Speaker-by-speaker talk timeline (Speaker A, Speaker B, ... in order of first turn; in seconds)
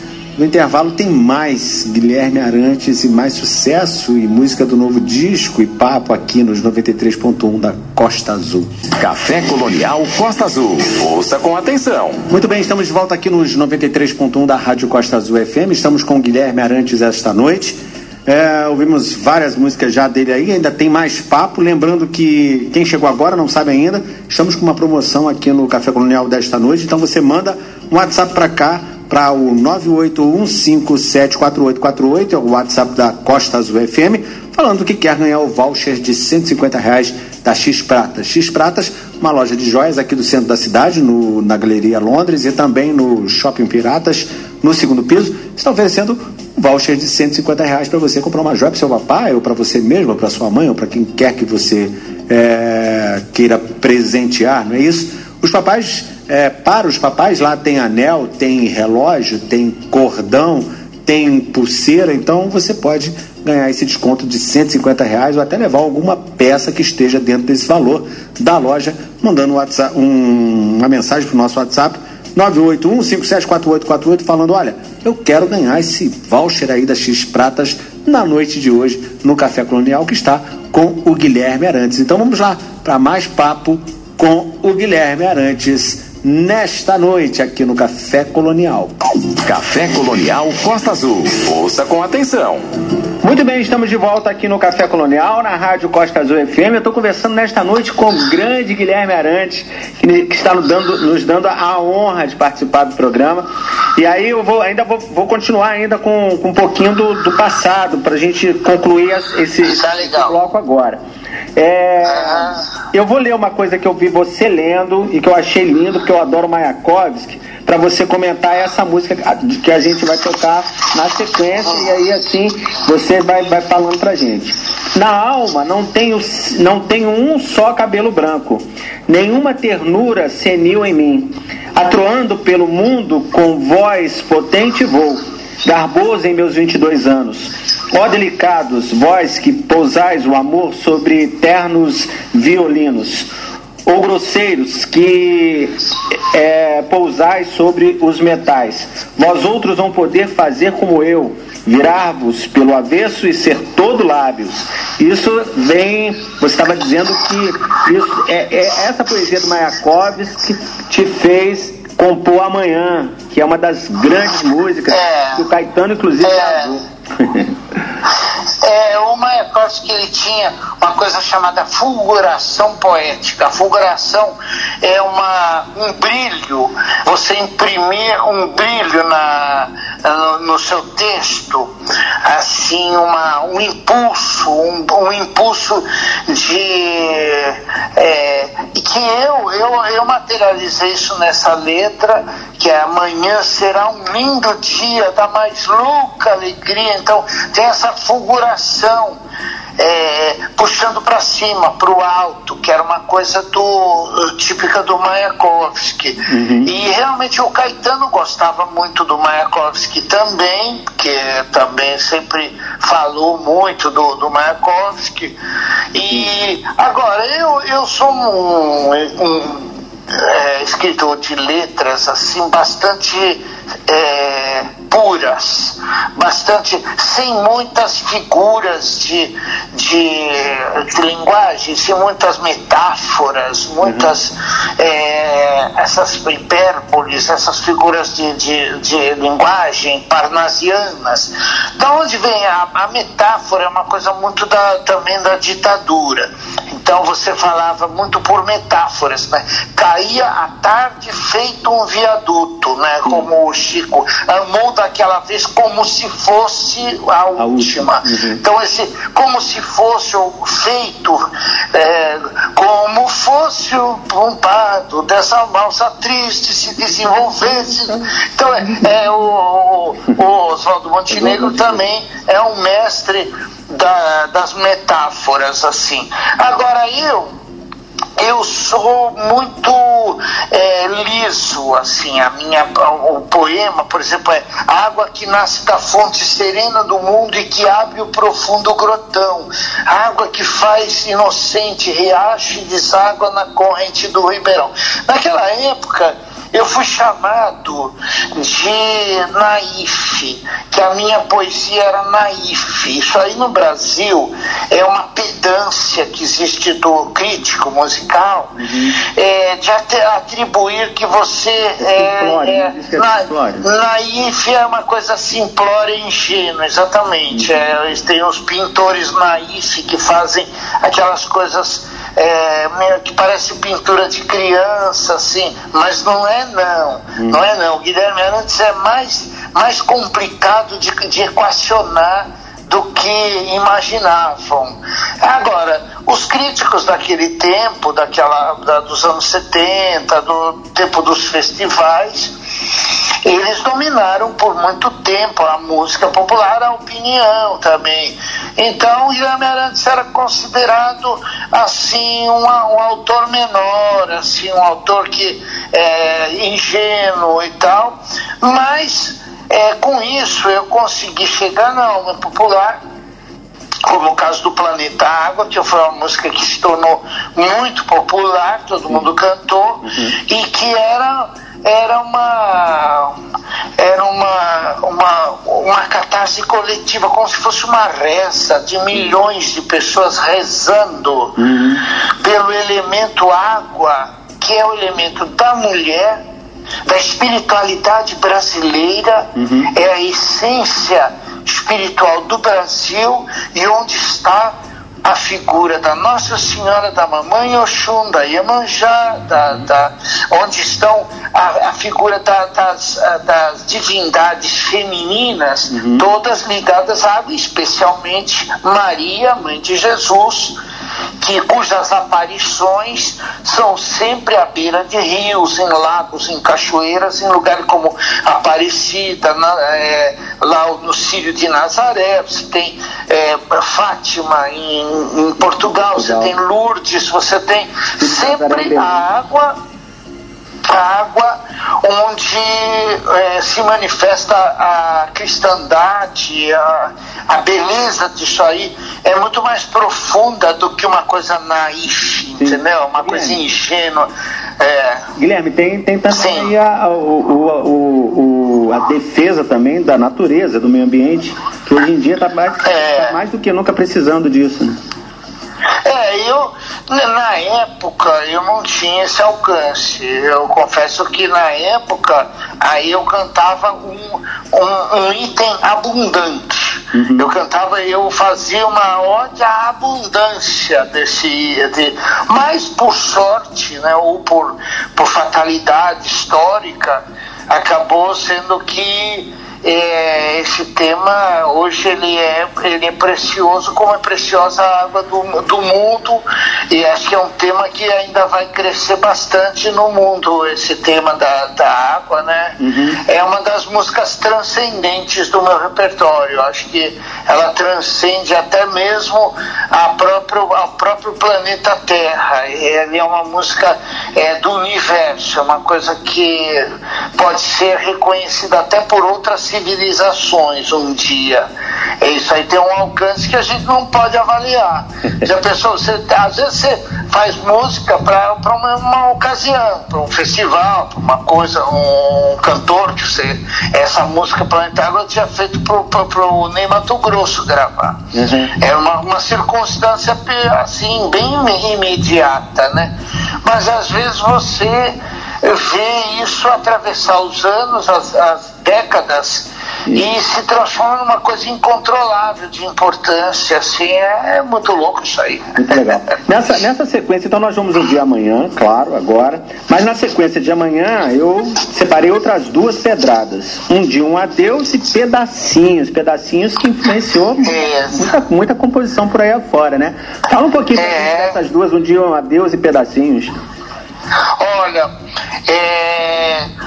Speaker A: 0.3-8.7, 12.3-88.9, 93.2-111.0, 111.5-143.3, 143.8-145.8, 146.3-167.5, 206.3-206.7, 233.8-234.1, 257.4-258.4, 271.1-271.8, 308.6-309.0, 311.8-313.7, 369.9-370.1, 381.4-381.9, 389.4-389.7, 405.7-406.0, 425.9-426.3, 428.0-428.9, 442.4-443.4, 445.2-454.8, 466.9-467.3, 492.6-493.0, 528.1-528.5, 545.6-563.3
Speaker B: 9.0-12.3, 89.4-92.7
Speaker C: 109.6-110.3, 112.0-112.6, 164.9-165.4, 166.2-166.7, 168.6-199.2, 199.8-215.3, 215.9-277.4, 278.2-342.3, 343.2-362.8, 363.8-373.2, 373.8-381.4, 382.2-386.2, 386.9-410.6, 411.2-429.6, 430.6-444.1, 444.6-445.1, 446.1-446.5, 452.6-453.2, 455.8-511.5, 512.0-545.6, 557.4-558.1, 560.7-561.4, 564.4-564.9, 565.5-566.5